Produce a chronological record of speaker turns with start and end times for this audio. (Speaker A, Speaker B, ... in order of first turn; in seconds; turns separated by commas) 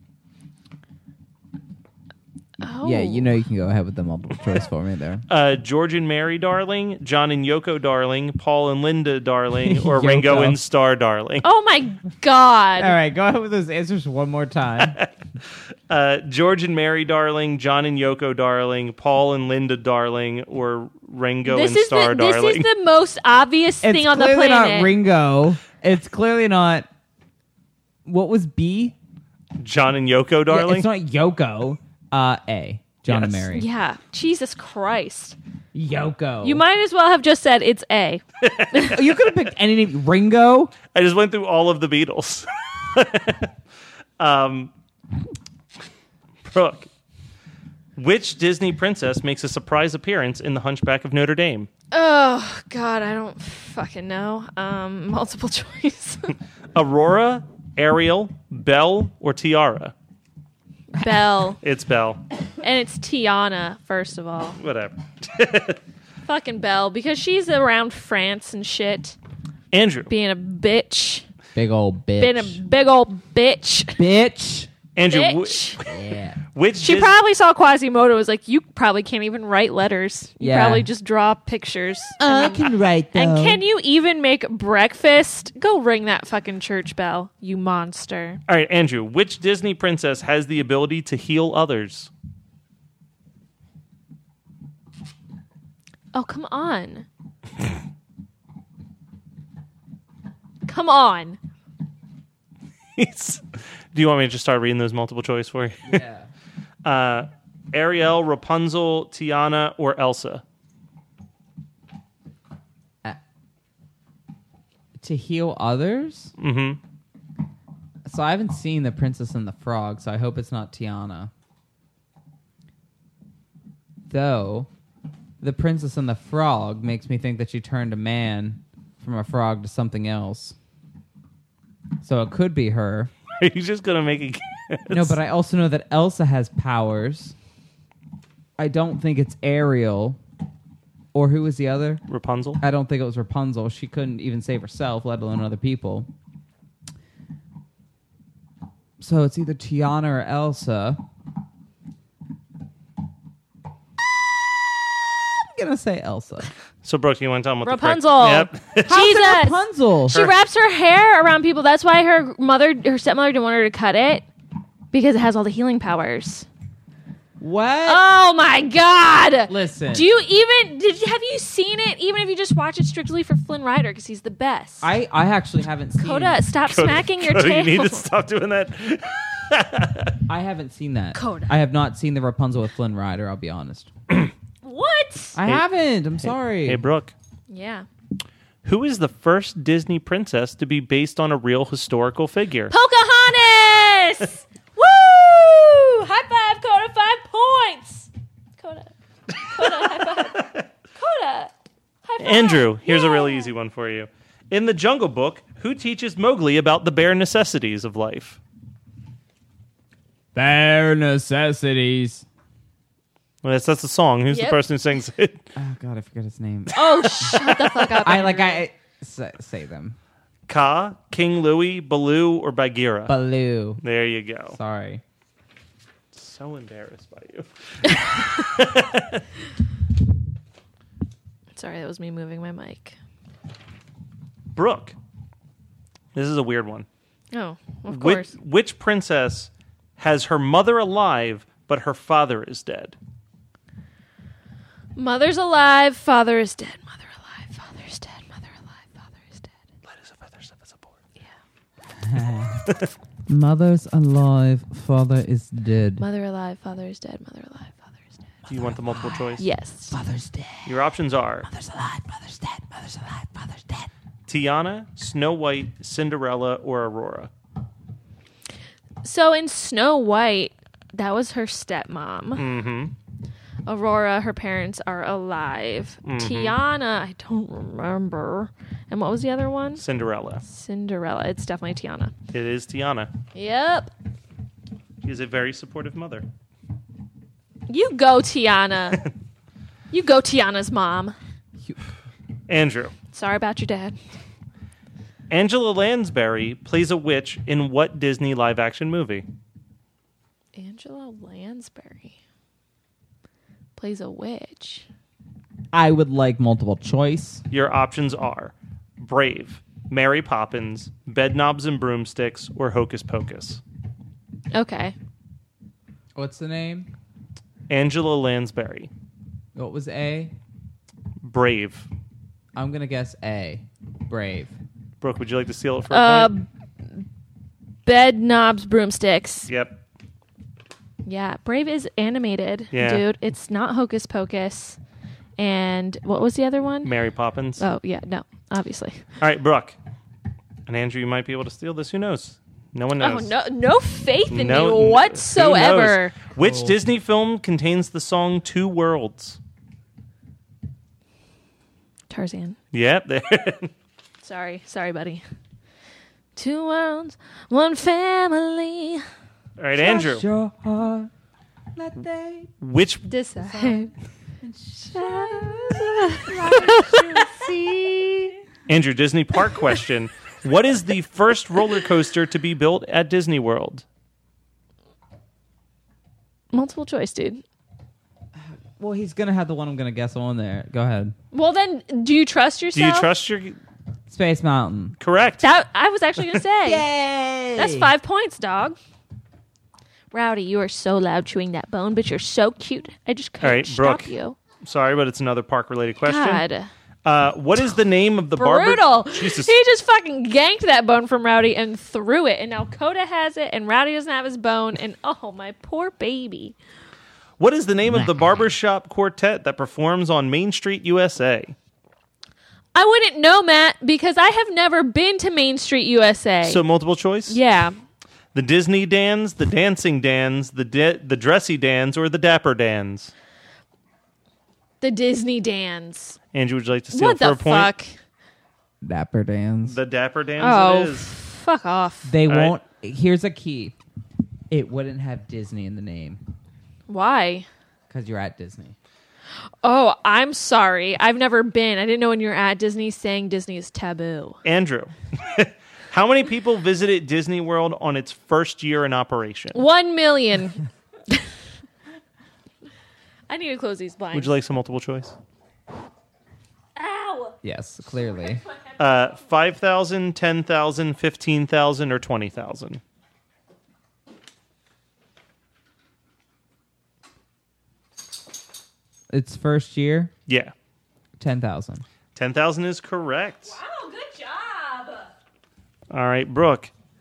Speaker A: 2.6-3.3, Speaker B: 2.8-5.2, Speaker C: 5.3-11.5, Speaker B: 9.6-10.6, Speaker A: 11.4-13.0, Speaker B: 12.8-15.0, Speaker C: 14.8-15.1, Speaker C: 15.9-22.7, Speaker A: 21.4-24.9, Speaker B: 23.8-26.9, Speaker B: 28.1-29.0, Speaker C: 29.6-30.9, Speaker B: 30.5-33.7, Speaker C: 33.1-33.5, Speaker A: 33.5-35.4, Speaker B: 35.7-36.6, Speaker A: 36.4-39.0, Speaker C: 38.4-39.0, Speaker B: 38.9-40.7, Speaker C: 40.9-43.5, Speaker C: 44.2-44.7, Speaker C: 46.4-46.9, Speaker C: 48.0-51.7, Speaker A: 51.9-56.3, Speaker C: 56.8-59.9, Speaker A: 60.9-61.6, Speaker C: 61.5-62.2, Speaker A: 62.6-64.6, Speaker C: 64.6-65.8, Speaker A: 66.2-69.2, Speaker C: 69.7-70.1, Speaker A: 70.1-71.3, Speaker B: 71.5-72.6, Speaker A: 72.2-74.0, Speaker B: 74.0-74.7, Speaker C: 75.0-75.9, Speaker A: 75.1-75.8, Speaker B: 75.8-76.4, Speaker C: 76.5-77.2, Speaker A: 76.8-88.4, Speaker B: 80.4-80.9, Speaker B: 82.2-83.6, Speaker C: 88.5-92.1, Speaker A: 96.1-97.1, Speaker A: 100.7-101.4, Speaker C: 103.0-106.0, Speaker B: 105.8-106.3, Speaker C: 106.8-110.4, Speaker B: 115.0-116.3, Speaker C: 116.4-116.8, Speaker B: 118.0-121.3, Speaker B: 124.1-124.7, Speaker B: 125.4-130.6, Speaker B: 132.0-133.1, Speaker C: 133.4-135.2, Speaker B: 134.9-137.4, Speaker B: 138.6-140.2, Speaker B: 141.1-142.0, Speaker C: 142.1-142.6, Speaker B: 142.6-146.1, Speaker B: 149.0-151.0, Speaker B: 155.1-156.5, Speaker C: 156.8-158.9, Speaker A: 157.6-164.3, Speaker B: 158.8-160.2, Speaker A: 164.9-166.5, Speaker B: 167.4-168.0, Speaker A: 167.9-174.9, Speaker B: 169.5-170.1, Speaker B: 174.8-176.4, Speaker A: 176.0-178.1, Speaker C: 176.7-180.2, Speaker B: 180.3-183.9, Speaker A: 181.2-181.5, Speaker A: 184.6-185.4, Speaker B: 185.3-186.8, Speaker C: 186.2-187.1, Speaker A: 187.5-187.9, Speaker C: 188.6-192.7, Speaker A: 192.7-201.5, Speaker C: 199.6-200.6, Speaker A: 202.1-203.5, Speaker C: 202.2-208.4, Speaker B: 210.3-212.3, Speaker C: 213.4-215.5, Speaker A: 214.3-214.6, Speaker B: 215.6-220.0, Speaker A: 216.7-218.7, Speaker C: 217.2-217.5, Speaker C: 220.5-223.2, Speaker B: 223.1-223.8, Speaker C: 223.8-224.6, Speaker B: 224.5-225.0, Speaker C: 226.1-229.2, Speaker A: 231.6-233.0, Speaker C: 234.6-235.0, Speaker C: 236.1-236.9, Speaker A: 237.3-238.3, Speaker C: 237.9-243.0, Speaker A: 245.0-249.5, Speaker C: 249.9-250.9, Speaker B: 251.9-252.7, Speaker B: 253.3-256.1, Speaker A: 256.0-257.9, Speaker B: 258.5-260.9, Speaker C: 258.5-259.5, Speaker A: 259.4-260.0, Speaker C: 260.6-261.5, Speaker B: 261.4-263.9, Speaker C: 264.3-267.3, Speaker A: 269.0-272.5, Speaker C: 272.4-272.9, Speaker A: 273.7-279.8, Speaker C: 276.1-276.6, Speaker C: 279.8-280.4, Speaker A: 280.4-282.1, Speaker C: 282.3-283.1, Speaker A: 283.3-283.9, Speaker C: 285.0-286.3, Speaker A: 287.7-289.0, Speaker A: 289.9-291.2, Speaker C: 292.5-292.9, Speaker A: 293.1-294.0, Speaker C: 295.3-299.3, Speaker A: 300.5-302.1, Speaker A: 303.8-304.9, Speaker B: 305.7-307.4, Speaker C: 307.5-313.6, Speaker A: 314.5-314.9, Speaker B: 316.1-316.9, Speaker C: 317.7-318.9, Speaker B: 319.6-320.3, Speaker C: 321.2-321.9, Speaker B: 322.6-324.6, Speaker C: 325.0-326.3, Speaker A: 325.9-326.5, Speaker A: 327.9-329.5, Speaker C: 329.5-329.8, Speaker A: 331.1-334.8, Speaker C: 332.7-333.1, Speaker A: 335.4-336.9, Speaker C: 336.8-337.6, Speaker A: 337.6-339.1, Speaker C: 339.2-339.8, Speaker C: 340.7-343.3, Speaker A: 343.0-346.2, Speaker C: 344.3-349.4, Speaker B: 346.4-346.8, Speaker A: 352.1-352.6, Speaker C: 352.7-353.7, Speaker A: 354.2-355.2, Speaker A: 356.4-359.0, Speaker C: 359.6-360.2, Speaker B: 359.8-361.1, Speaker B: 361.8-362.5, Speaker C: 362.6-363.1, Speaker A: 363.1-363.9, Speaker B: 363.4-368.4, Speaker A: 364.9-367.0, Speaker C: 368.7-373.9, Speaker A: 376.5-377.4, Speaker B: 378.4-381.2, Speaker A: 381.3-383.1, Speaker C: 382.7-383.6, Speaker B: 384.1-385.0, Speaker C: 385.0-385.5, Speaker A: 385.4-386.9, Speaker B: 386.6-387.9, Speaker A: 387.6-388.8, Speaker A: 390.1-394.4, Speaker C: 393.4-394.1, Speaker C: 394.6-396.4, Speaker A: 396.1-396.7, Speaker C: 397.1-399.5, Speaker A: 398.4-406.6, Speaker C: 407.4-411.6, Speaker B: 407.9-408.5, Speaker A: 412.8-416.6, Speaker C: 416.4-417.4, Speaker A: 417.3-417.8, Speaker C: 418.3-423.1, Speaker A: 424.8-426.2, Speaker C: 426.3-427.7, Speaker A: 426.9-427.9, Speaker B: 428.8-429.8, Speaker C: 429.7-431.1, Speaker A: 430.4-432.1, Speaker B: 432.1-433.8, Speaker C: 432.3-432.6, Speaker B: 434.5-436.2, Speaker A: 436.9-437.5, Speaker B: 437.9-438.8, Speaker A: 439.6-444.4, Speaker C: 444.4-449.6, Speaker A: 449.5-451.3, Speaker A: 453.3-454.4, Speaker C: 454.1-455.1, Speaker A: 456.8-457.4, Speaker B: 457.4-458.4, Speaker C: 458.8-462.8, Speaker B: 469.1-470.1, Speaker C: 470.3-470.5, Speaker B: 471.2-471.9, Speaker C: 472.2-473.6, Speaker A: 473.5-475.1, Speaker C: 475.9-476.7